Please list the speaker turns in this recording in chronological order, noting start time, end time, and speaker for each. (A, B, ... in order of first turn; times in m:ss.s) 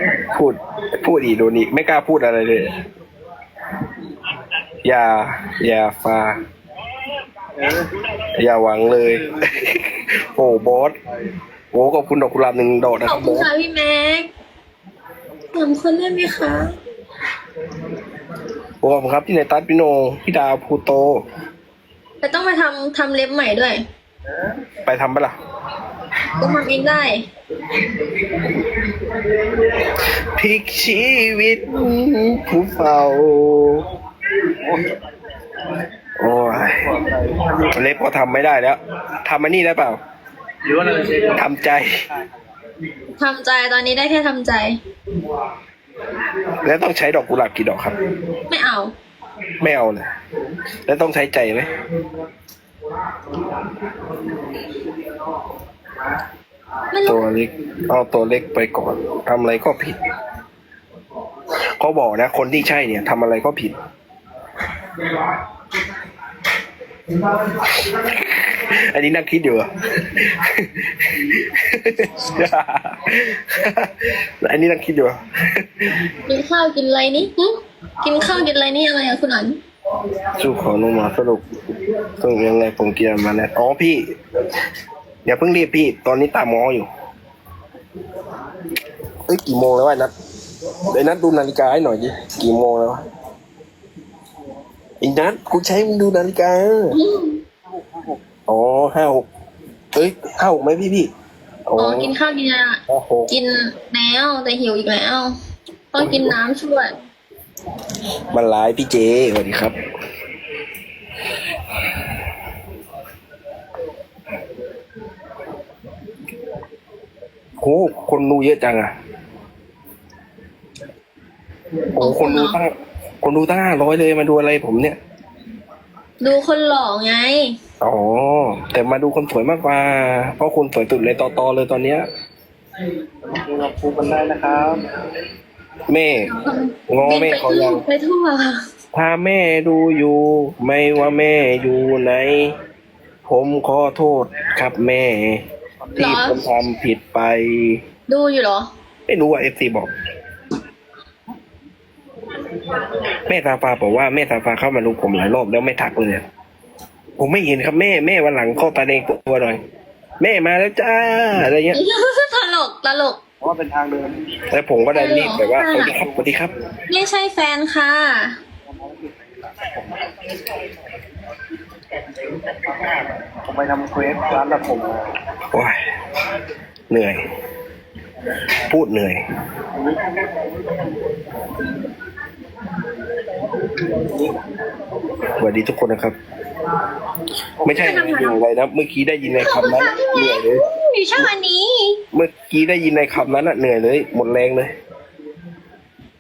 0:00.3-0:02.7 A
0:04.8-0:06.4 A
0:07.6-0:07.8 B
0:08.4-0:11.0 A
0:11.7-0:13.5 A
0:13.0-0:14.3 C
0:15.5-0:16.7 C
0:18.8-0:21.2 A
0:22.2-0:23.8 C
0:24.8-0:25.4 A
0:26.3-0:27.2 C
0:30.4-0:33.9 A
0:34.6-0:35.0 B
0:36.2-0:36.9 A
0:36.7-0:37.8 B
0:37.7-0:40.0 A
0:40.6-0:41.4 B
0:41.3-0:42.0 A
0:42.1-0:42.5 B
0:43.2-0:44.8 C
0:46.6-0:48.0 A
0:48.5-0:48.9 C
0:49.6-0:50.1 A
0:50.9-0:51.7 A
0:56.9-0:57.2 C
0:57.0-1:00.0 A
1:01.8-1:03.7 A
1:07.2-1:16.0 A
1:16.3-1:19.6 C
1:20.4-1:21.4 A
1:22.2-1:24.0 A
1:25.2-1:26.9 A
1:29.3-1:30.1 A
1:30.9-1:33.0 A
1:35.0-1:37.0 A
1:36.9-1:37.4 C
1:37.7-1:38.2 B
1:38.5-1:39.3 A
1:39.9-1:41.1 A
1:41.7-1:42.1 A
1:41.8-1:45.3 C
1:42.9-1:43.3 A
1:45.9-1:46.9 C
1:46.0-1:46.4 A
1:48.3-1:49.8 A
1:57.6-1:58.9 A
2:02.0-2:02.6 C
2:02.0-2:05.0 A
2:06.2-2:07.5 C
2:07.8-2:12.0 A
2:13.2-2:14.8 B
2:15.9-2:16.3 A
2:16.3-2:18.6 C
2:16.9-2:17.8 A
2:18.9-2:22.5 A
2:23.3-2:25.4 A
2:26.0-2:27.8 A
2:26.0-2:26.4 C
2:28.1-2:28.7 C
2:29.1-2:29.9 A
2:33.3-2:36.2 A
2:37.2-2:39.6 A
2:40.2-2:41.8 A
2:41.7-2:43.2 C
2:43.4-2:44.4 B
2:44.5-2:46.5 A
2:44.9-2:45.9 C
2:45.9-2:46.5 B
2:46.9-2:48.4 C
2:48.7-2:50.6 B
2:52.5-2:55.1 B
2:56.9-2:57.2 A
2:58.7-2:59.2 A
2:59.7-3:00.8 B
3:04.0-3:04.3 B
3:05.4-3:06.2 A
3:07.6-3:10.6 A
3:07.7-3:08.4 C
3:09.4-3:12.0 C
3:12.1-3:14.7 A